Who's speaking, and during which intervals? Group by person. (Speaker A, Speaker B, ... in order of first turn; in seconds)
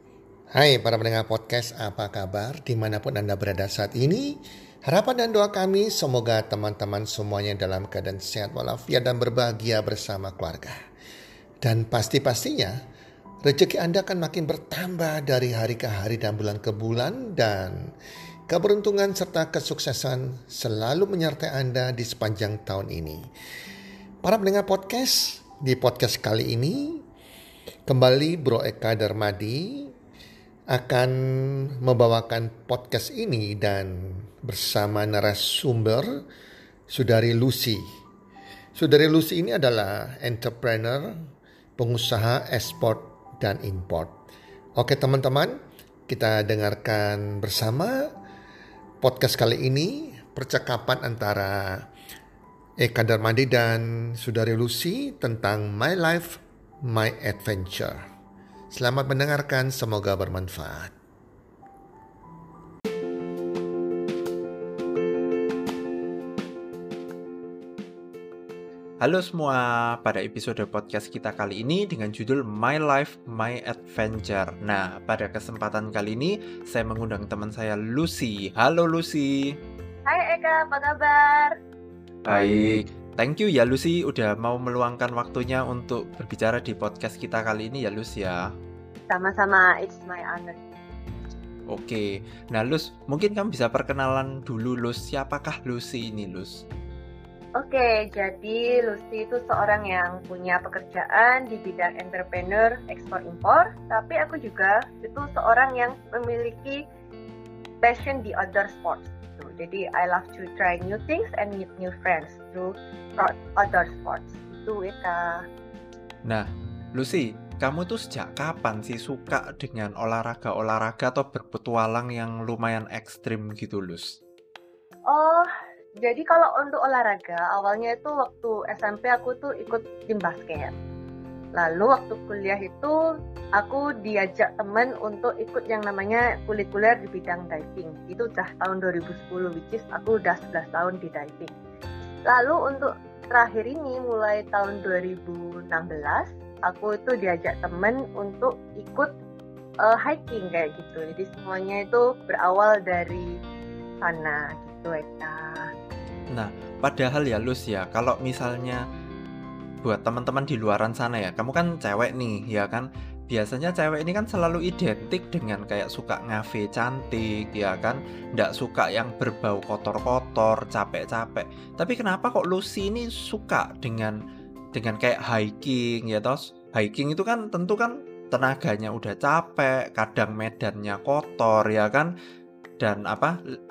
Speaker A: 0.5-10.8, 11.6-12.8, 13.4-17.8, 18.5-23.2, 24.2-27.0, 27.9-29.9, 30.7-31.1, 31.8-36.1, 36.9-37.8, 38.8-41.1, 41.8-44.1, 44.8-45.5, 46.1-48.1, 49.0-51.8, 52.8-58.0, 58.7-60.9
Speaker B: 69.0-79.5, 82.3-88.4, 91.7-96.6, 116.3-124.1, 156.3-158.8, 159.8-174.2, 174.7-182.1, 182.8-183.3
Speaker C: 80.1-81.5, 89.1-90.6, 97.6-106.8, 107.8-115.4, 125.1-125.5, 126.0-130.7, 131.6-132.9, 133.6-141.5, 142.3-149.1, 149.8-153.3, 154.0-155.6